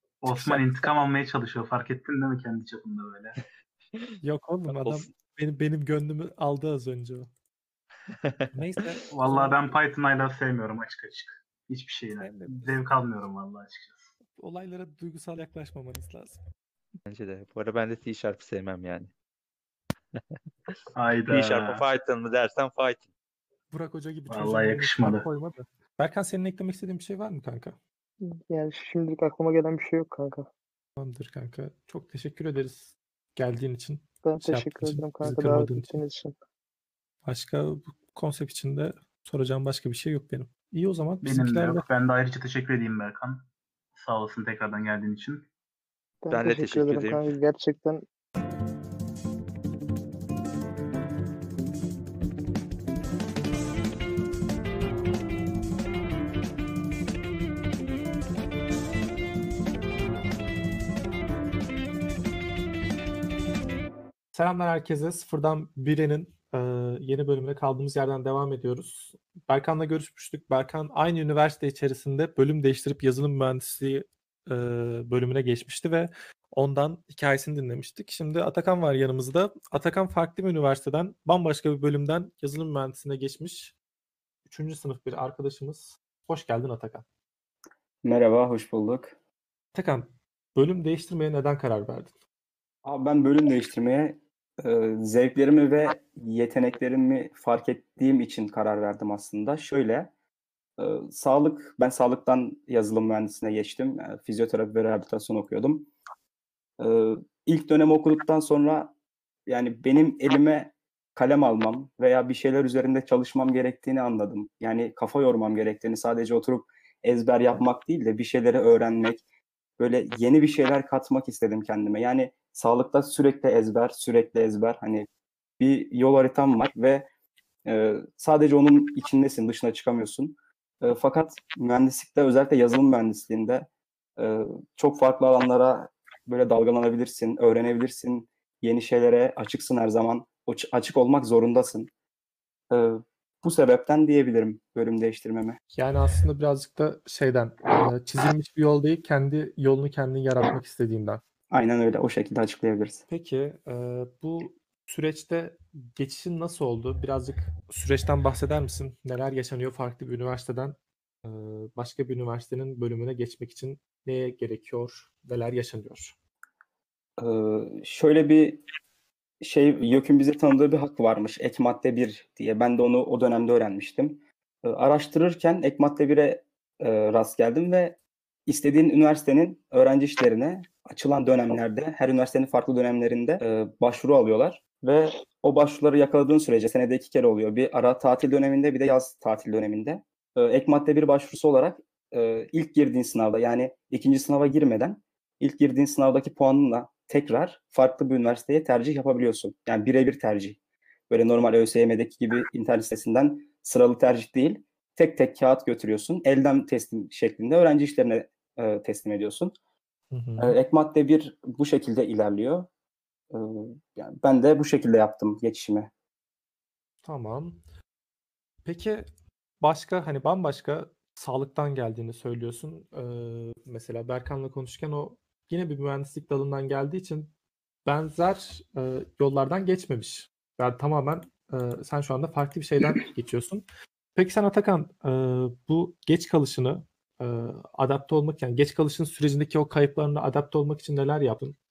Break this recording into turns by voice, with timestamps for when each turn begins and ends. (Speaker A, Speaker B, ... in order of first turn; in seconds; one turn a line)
Speaker A: 0.2-3.4
Speaker B: 0.3-0.9
Speaker B: 4.2-7.3
Speaker C: 4.7-5.1
Speaker C: 8.1-8.5
Speaker B: 8.5-9.6
Speaker A: 9.1-14.1
Speaker B: 12.2-12.7
Speaker B: 14.4-16.4
Speaker C: 17.1-19.1
Speaker C: 20.1-20.8
Speaker A: 20.9-21.9
Speaker C: 21.3-23.1
Speaker B: 23.7-27.8
Speaker A: 24.3-25.3
Speaker D: 28.2-30.5
Speaker B: 31.0-36.0
Speaker D: 34.2-36.4
Speaker B: 37.2-41.9
Speaker A: 41.2-45.5
Speaker D: 46.2-48.0
Speaker C: 46.3-47.3
Speaker B: 64.3-83.8
Speaker B: 84.5-87.0
Speaker E: 88.0-89.2
Speaker B: 89.7-92.1
Speaker E: 92.8-100.1
Speaker E: 100.8-105.9
Speaker E: 106.8-108.9
Speaker E: 109.5-119.2
Speaker E: 119.8-125.1
Speaker E: 125.6-127.1
Speaker E: 127.6-141.9
Speaker E: 142.7-145.6
Speaker B: 145.7-151.2
Speaker E: 151.5-153.0
Speaker B: 153.1-166.1
Speaker E: 167.2-168.6
Speaker E: 169.4-200.6
Speaker E: 201.1-209.6
Speaker B: 210.1-210.6
Speaker E: 210.4-212.7
Speaker E: 213.3-215.9
Speaker B: 217.0-217.6
Speaker B: 218.6-219.1
Speaker B: 219.6-227.3
Speaker B: 227.8-233.6
Speaker B: 234.1-241.6